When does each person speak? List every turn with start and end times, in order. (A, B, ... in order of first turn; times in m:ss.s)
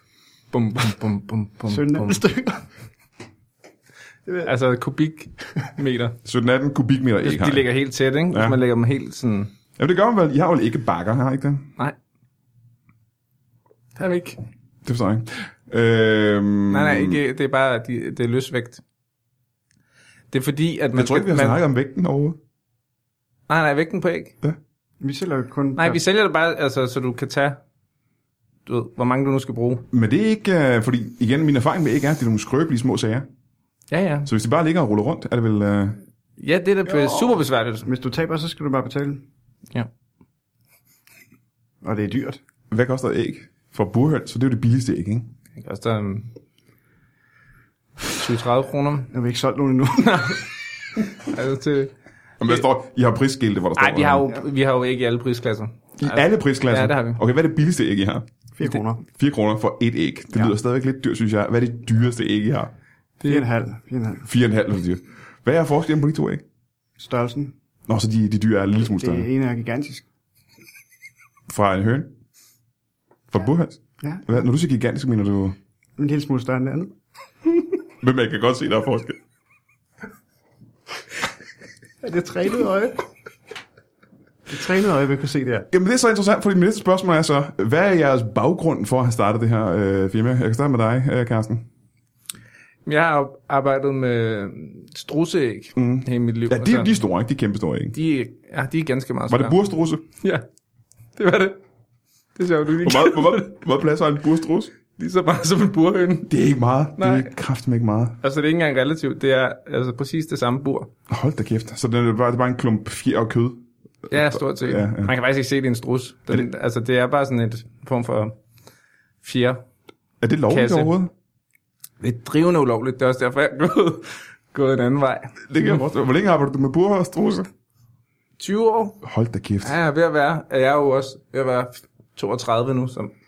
0:00.5-0:02.2 A
0:01.7-0:02.6 B
0:04.4-0:06.2 A
0:06.2-0:07.7 C
0:07.2-0:09.5 A
0:08.3-0:08.6 C
0:09.8-0:11.7 C
0:14.0-0:14.4 A
0:14.8-0:17.2 C
0:16.7-0:18.8 A
0:20.3-0:21.6 A
0:20.9-0:22.4 C
0:23.5-0:24.3 A
0:25.0-0:26.0 B
0:25.8-0:27.6 A
0:28.7-0:29.8 A
0:29.9-0:33.2 C
0:33.9-0:34.3 A
0:34.2-0:36.0 C
0:36.4-0:37.9 A
0:36.9-0:37.3 B
0:37.8-0:39.2 B
0:41.8-0:42.4 B
0:42.7-0:45.3 C
0:45.6-0:46.3 A
0:48.1-0:49.1 A
0:49.1-0:50.3 B
0:50.0-0:50.4 A
0:51.2-0:51.9 A
0:52.4-0:54.3 C
0:53.8-0:57.2 A
0:56.0-0:58.2 C
0:58.6-0:59.0 B
0:59.1-1:02.7 C
1:03.2-1:03.4 A
1:03.2-1:04.3 B
1:04.2-1:06.4 C
1:07.0-1:07.5 B
1:07.9-1:09.3 C
1:08.9-1:10.0 B
1:11.5-1:12.1 C
1:13.3-1:15.6 C
1:14.0-1:14.4 B
1:16.0-1:16.9 B
1:18.0-1:19.2 C
1:22.0-1:23.0 B
1:24.5-1:25.7 B
1:25.7-1:31.6 C
1:32.8-1:37.0 A
1:35.8-1:38.0 C
1:37.9-1:39.6 A
1:39.3-1:40.0 C
1:40.2-1:40.4 A
1:41.2-1:41.6 A
1:42.4-1:43.5 A
1:42.8-1:44.7 C
1:45.0-1:46.3 A
1:46.2-1:48.2 C
1:47.0-1:47.3 A
1:48.2-1:50.9 A
1:51.1-1:55.1 C
1:54.1-1:58.3 A
1:59.2-1:59.6 A
2:00.2-2:01.1 C
2:00.5-2:00.9 A
2:02.0-2:05.8 A
2:05.5-2:07.5 C
2:08.4-2:09.0 A
2:09.0-2:09.7 C
2:09.6-2:13.1 A